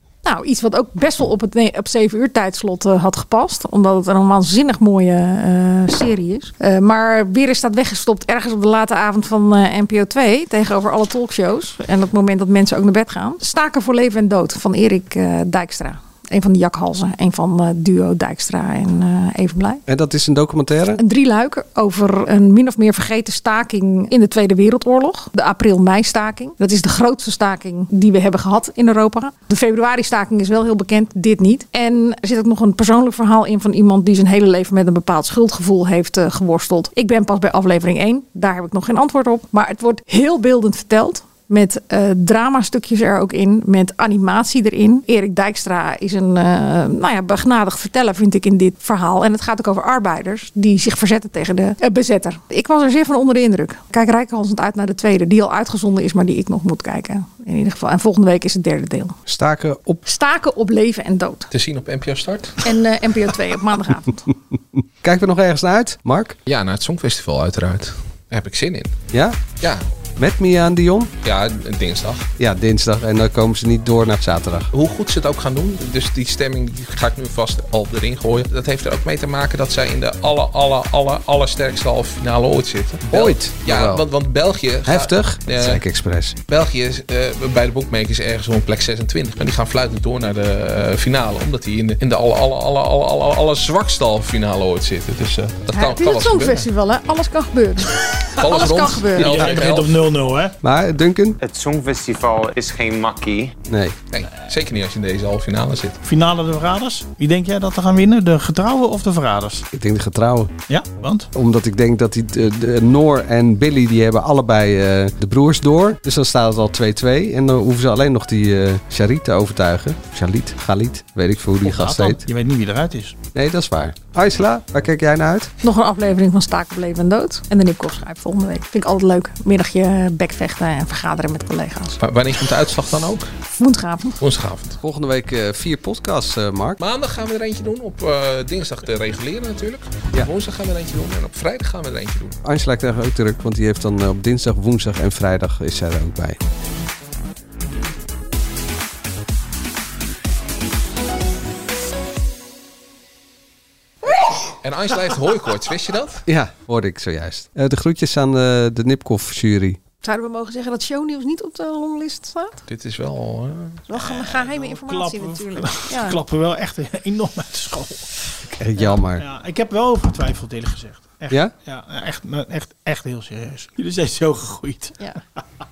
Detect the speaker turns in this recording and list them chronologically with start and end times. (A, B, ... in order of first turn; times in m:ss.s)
0:00.2-0:19.8 A
0:19.9-0:21.0 B
0:21.0-0:59.2 A
0:59.3-1:00.0 B
1:00.1-1:01.5 A
1:01.5-1:02.6 C
1:02.6-1:04.2 A
1:05.0-1:06.4 B
1:06.5-1:09.0 C
1:09.1-1:09.4 B
1:10.2-1:11.1 B
1:11.2-1:12.3 C
1:12.4-1:14.7 B
1:14.7-1:25.8 C
1:23.1-1:24.0 B
1:24.9-1:26.4 B
1:26.5-1:36.7 C
1:35.7-1:39.5 A
1:38.4-1:40.0 C
1:39.2-1:40.6 D
1:40.6-1:41.4 B
1:41.4-1:43.5 E
1:43.7-1:44.0 B
1:44.1-1:46.0 C
1:46.0-1:49.6 D
1:49.7-1:50.5 B
1:50.7-1:51.3 D
1:51.3-2:02.2 B
2:01.6-2:03.2 D
2:03.3-2:05.5 B
2:05.6-2:12.0 A
2:12.0-2:13.3 C
2:13.6-2:14.2 A
2:14.2-2:14.8 C
2:14.8-2:16.8 B
2:16.8-2:22.4 C
2:22.4-2:26.4 B
2:34.6-2:36.2 C
2:36.3-2:39.8 B
2:40.0-2:42.6 A
2:42.7-2:43.8 C
2:43.9-2:46.2 A
2:43.9-2:48.1 D
2:48.6-2:49.2 B
2:48.8-2:55.0 D